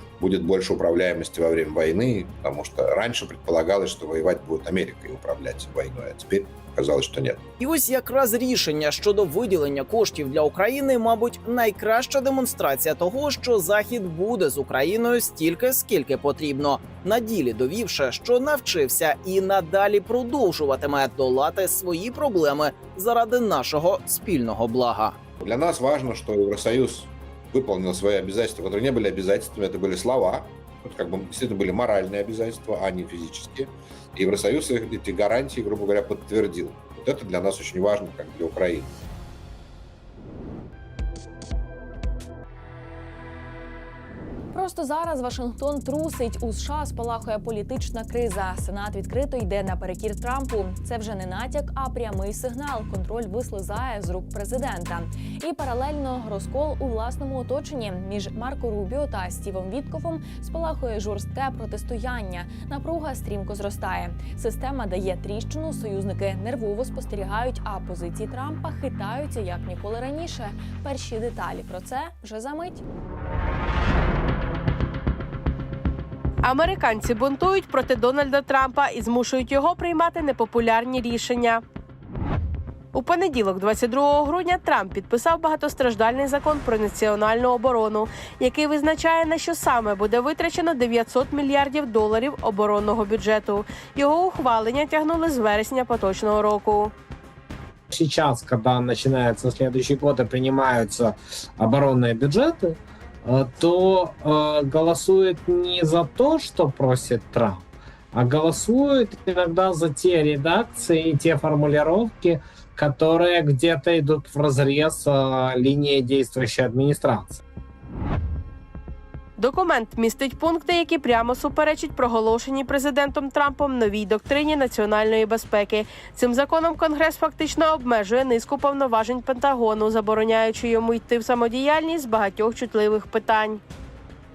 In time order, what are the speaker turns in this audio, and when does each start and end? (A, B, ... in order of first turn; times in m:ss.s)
0:00.2-0:07.4 A
0:07.6-0:25.2 B
0:25.4-0:39.0 A
0:44.5-1:12.8 C
1:16.4-1:21.6 D
1:22.9-1:36.9 D
1:37.9-1:57.4 E
1:59.4-2:13.6 D